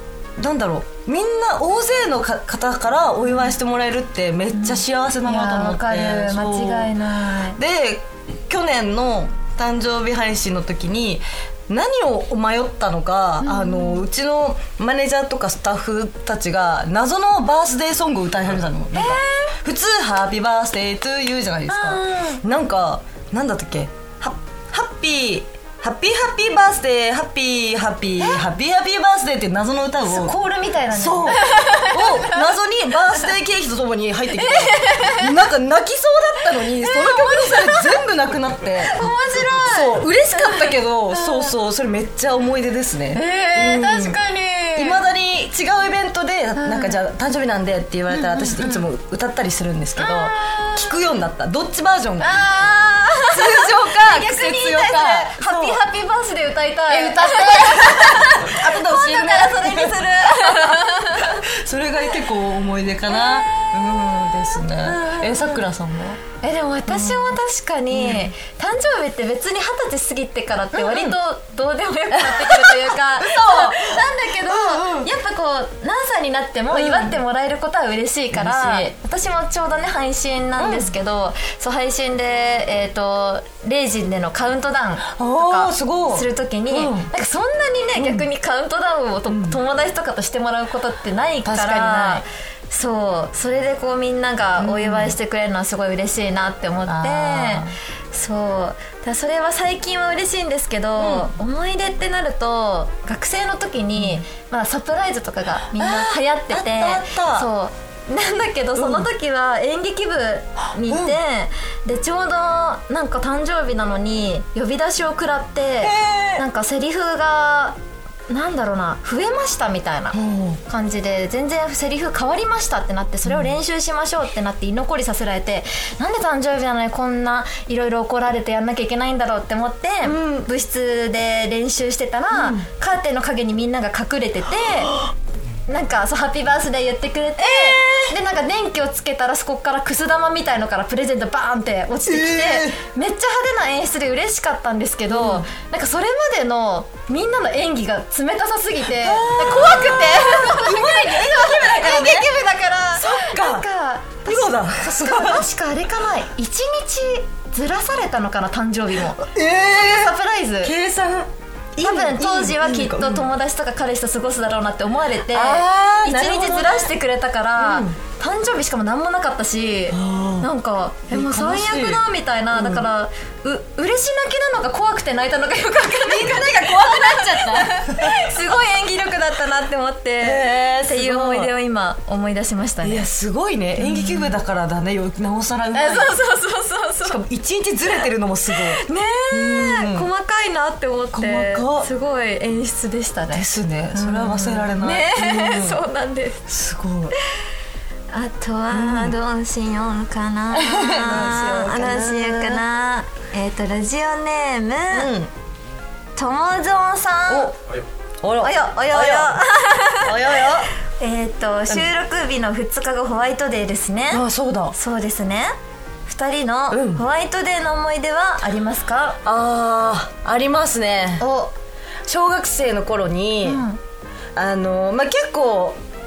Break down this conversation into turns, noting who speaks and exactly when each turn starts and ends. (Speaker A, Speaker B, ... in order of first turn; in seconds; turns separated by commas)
Speaker A: 0.4-6.9, Speaker B: 4.5-7.6, Speaker A: 7.5-30.3, Speaker B: 13.4-14.1, Speaker B: 19.0-19.6, Speaker B: 21.7-22.4, Speaker B: 28.2-28.5, Speaker B: 30.1-32.4, Speaker A: 30.9-39.0, Speaker B: 34.3-35.4, Speaker B: 36.6-38.0, Speaker B: 38.8-41.5, Speaker A: 39.6-44.2, Speaker B: 43.1-45.0, Speaker A: 44.8-52.4, Speaker B: 46.6-47.0, Speaker B: 48.1-48.8, Speaker B: 50.0-50.9, Speaker B: 52.2-61.5, Speaker A: 53.3-55.8, Speaker A: 56.9-66.2, Speaker B: 64.8-65.6, Speaker B: 66.4-135.0, Speaker A: 66.9-67.3, Speaker A: 67.9-68.3, Speaker A: 70.7-71.2, Speaker A: 72.1-75.1, Speaker A: 76.7-77.2, Speaker A: 78.3-78.9, Speaker A: 80.6-80.9, Speaker A: 85.1-87.1, Speaker A: 88.0-88.3, Speaker A: 89.3-89.6, Speaker A: 91.4-92.3, Speaker A: 94.6-95.2, Speaker A: 96.9-97.7, Speaker A: 101.0-101.3, Speaker A: 104.0-104.2, Speaker A: 105.8-107.5, Speaker A: 108.8-109.1, Speaker A: 110.8-111.2, Speaker A: 115.8-116.5, Speaker A: 120.1-120.6, Speaker A: 123.3-123.5, Speaker A: 130.0-130.4, Speaker A: 132.3-132.6, Speaker B: 135.7-160.8, Speaker A: 137.4-138.2, Speaker A: 142.1-142.8, Speaker A: 145.1-145.5, Speaker A: 149.0-152.3, Speaker A: 152.9-153.7, Speaker A: 154.3-155.5, Speaker A: 159.2-163.3, Speaker B: 161.8-183.1, Speaker A: 165.3-166.9, Speaker A: 167.6-168.0, Speaker A: 169.9-170.5, Speaker A: 171.1-172.9, Speaker A: 176.0-178.2, Speaker A: 180.2-181.5, Speaker A: 182.8-186.1, Speaker B: 183.8-184.3, Speaker B: 185.7-187.2, Speaker A: 187.0-190.1, Speaker B: 188.5-196.5, Speaker A: 191.1-191.9, Speaker A: 193.3-195.8, Speaker A: 196.5-197.2, Speaker B: 198.1-205.1, Speaker A: 198.7-199.2, Speaker A: 200.5-202.7, Speaker A: 204.9-205.3, Speaker B: 206.2-207.5, Speaker A: 207.3-207.6, Speaker A: 208.2-210.7, Speaker B: 208.4-210.5, Speaker B: 211.0-215.5, Speaker A: 214.1-214.8, Speaker B: 216.1-219.2, Speaker A: 216.7-217.1, Speaker A: 219.2-221.2, Speaker B: 221.2-221.5, Speaker A: 222.1-223.6, Speaker B: 223.4-223.8, Speaker A: 224.3-225.8